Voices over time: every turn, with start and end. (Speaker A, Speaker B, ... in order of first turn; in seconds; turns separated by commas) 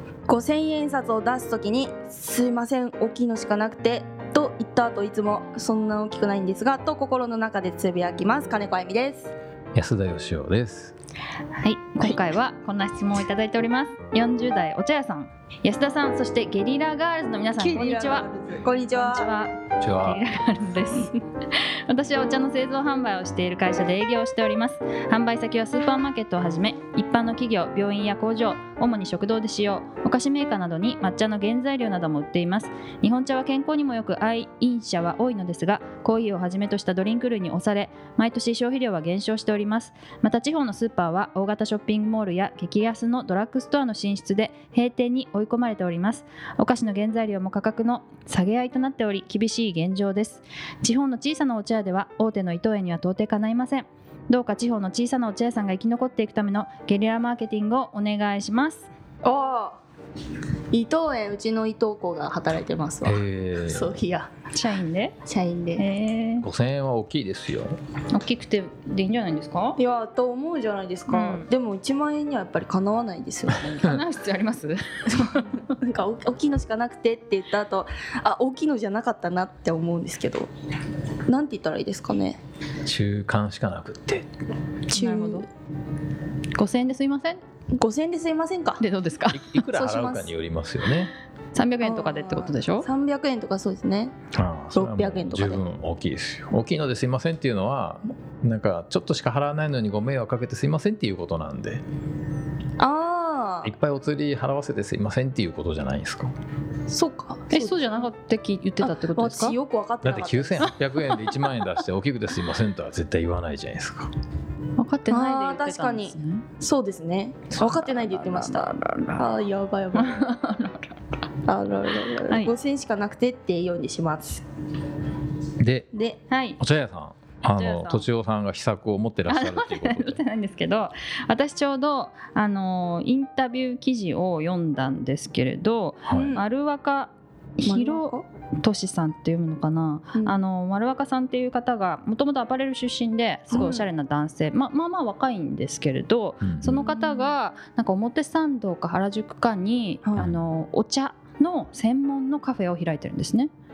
Speaker A: 0.3-9.3, Speaker B: 9.7-10.9, Speaker C: 11.6-18.2, Speaker A: 17.6-19.3, Speaker C: 18.9-58.9, Speaker B: 19.8-20.2, Speaker A: 59.2-59.8, Speaker A: 60.7-64.3, Speaker B: 63.0-64.0, Speaker C: 64.5-65.2, Speaker A: 65.2-65.8, Speaker C: 65.7-66.5, Speaker B: 66.4-67.8, Speaker C: 68.1-69.8, Speaker A: 69.8-73.9, Speaker C: 71.1-71.5, Speaker C: 73.8-75.7, Speaker A: 75.1-80.5, Speaker A: 81.3-82.4, Speaker B: 82.8-84.3, Speaker C: 84.9-85.5, Speaker A: 84.9-85.5, Speaker C: 86.5-87.4, Speaker A: 87.7-88.8, Speaker C: 88.8-89.6, Speaker B: 89.3-91.1, Speaker A: 89.7-90.3, Speaker C: 91.5-92.9, Speaker A: 91.8-94.1, Speaker B: 94.3-101.8, Speaker A: 94.7-95.6, Speaker A: 102.8-103.8, Speaker B: 103.6-106.3, Speaker A: 106.9-108.1, Speaker C: 107.5-109.5, Speaker A: 108.8-110.8, Speaker B: 110.0-114.1, Speaker C: 114.8-116.4, Speaker A: 115.1-120.2, Speaker C: 117.6-119.4, Speaker C: 119.9-121.0, Speaker A: 121.5-124.4, Speaker C: 122.2-122.5, Speaker B: 125.6-125.9, Speaker A: 125.9-126.2, Speaker C: 126.3-126.6, Speaker B: 126.6-130.2, Speaker C: 127.5-128.1, Speaker C: 129.3-153.5, Speaker B: 136.0-136.3, Speaker A: 136.1-136.4, Speaker A: 137.6-138.2, Speaker A: 143.5-143.9, Speaker B: 146.4-146.8, Speaker A: 146.7-147.3, Speaker A: 150.0-150.3